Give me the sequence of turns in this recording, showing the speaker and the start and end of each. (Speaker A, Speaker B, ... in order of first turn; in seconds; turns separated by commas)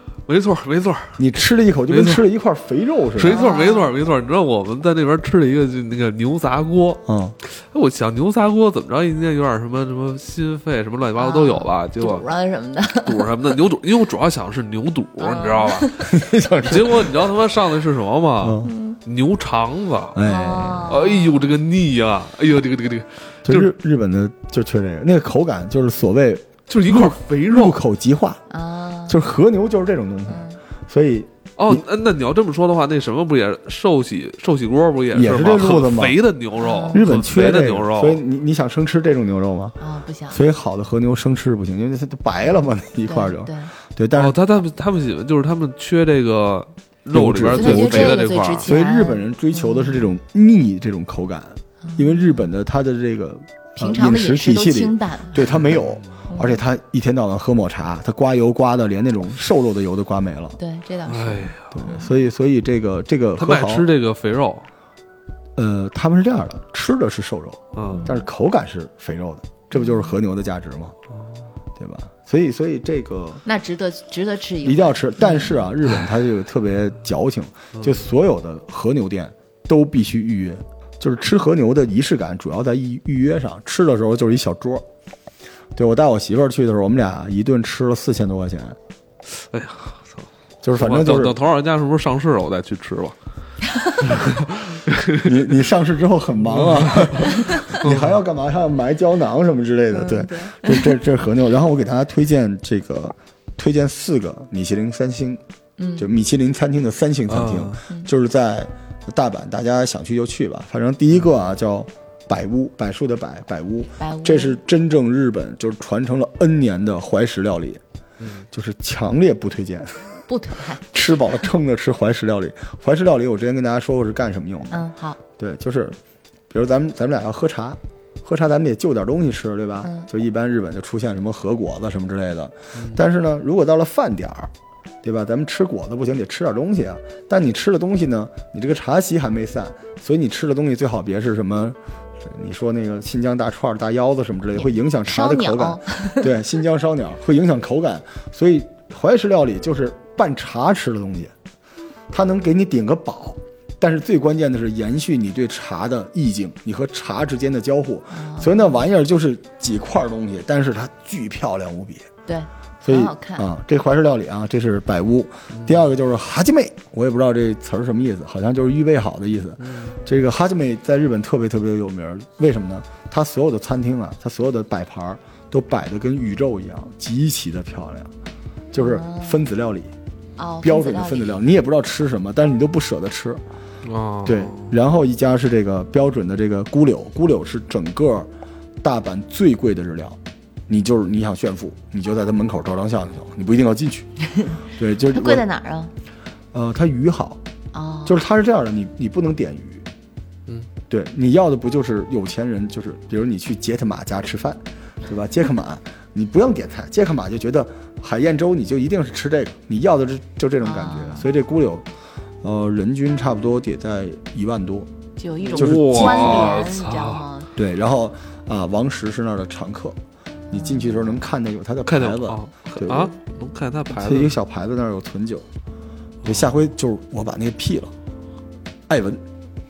Speaker A: 0.3-1.2, Speaker B: 1.2-3.5, Speaker A: 1.9-2.2, Speaker A: 3.2-12.3, Speaker C: 3.2-3.9, Speaker B: 7.1-7.4, Speaker C: 11.2-13.6, Speaker A: 13.0-15.9, Speaker C: 15.2-16.1, Speaker B: 16.1-17.3, Speaker A: 16.6-20.2, Speaker B: 18.4-18.7, Speaker C: 18.6-19.0, Speaker B: 20.1-21.0, Speaker C: 20.2-21.5, Speaker A: 20.9-23.7, Speaker B: 23.4-28.4, Speaker A: 26.7-27.8, Speaker C: 28.5-29.2, Speaker B: 29.1-31.8, Speaker C: 30.3-30.6, Speaker A: 31.6-38.2, Speaker B: 35.1-36.2, Speaker C: 36.6-37.0, Speaker B: 36.9-39.8, Speaker C: 39.8-40.4, Speaker B: 40.3-44.4, Speaker C: 43.0-43.7, Speaker A: 44.1-48.7, Speaker B: 47.1-60.6, Speaker C: 47.5-50.1, Speaker C: 51.8-52.5, Speaker C: 53.8-55.4, Speaker A: 55.6-56.0, Speaker C: 56.3-56.6, Speaker C: 60.6-62.1, Speaker A: 61.1-61.8, Speaker B: 61.7-63.9, Speaker A: 63.4-64.7, Speaker B: 65.6-71.0, Speaker A: 67.8-68.1, Speaker C: 67.9-68.2, Speaker C: 69.8-70.2, Speaker B: 71.8-73.4, Speaker C: 73.5-75.6, Speaker B: 74.6-84.9, Speaker A: 77.8-78.0, Speaker B: 85.8-88.8, Speaker A: 89.3-93.2, Speaker B: 90.6-91.4, Speaker A: 94.0-95.4, Speaker B: 95.2-105.4, Speaker A: 96.4-98.2, Speaker C: 97.3-97.8, Speaker C: 99.9-100.9, Speaker C: 105.8-106.1, Speaker B: 106.0-117.8, Speaker A: 107.3-107.8, Speaker C: 114.0-114.6, Speaker A: 118.2-118.5, Speaker B: 118.5-120.2, Speaker C: 120.3-120.8, Speaker B: 120.8-124.9, Speaker C: 124.7-125.2, Speaker B: 125.4-126.0, Speaker B: 126.5-134.5, Speaker C: 129.8-130.1, Speaker A: 132.8-133.0, Speaker B: 135.0-151.3, Speaker C: 144.6-146.3, Speaker B: 152.1-162.1, Speaker C: 158.1-158.8, Speaker C: 162.3-163.4, Speaker B: 162.8-178.1, Speaker A: 165.5-165.8, Speaker A: 169.6-170.0, Speaker B: 178.7-179.9, Speaker C: 178.8-179.5, Speaker C: 180.4-181.4, Speaker B: 180.6-183.4, Speaker A: 183.8-184.7, Speaker B: 184.2-188.3, Speaker B: 188.8-194.1, Speaker B: 194.7-195.4, Speaker C: 195.1-195.9, Speaker B: 196.5-197.4, Speaker C: 197.7-198.2, Speaker B: 198.1-199.9, Speaker B: 200.9-211.9, Speaker C: 210.6-211.3, Speaker B: 212.4-214.9, Speaker C: 215.2-217.5, Speaker A: 215.4-217.3, Speaker B: 215.6-216.6, Speaker B: 217.6-220.0, Speaker C: 220.5-221.2, Speaker B: 220.5-223.1, Speaker A: 221.9-224.4, Speaker B: 223.9-225.5, Speaker A: 226.2-226.7, Speaker B: 226.2-227.9, Speaker B: 228.9-229.2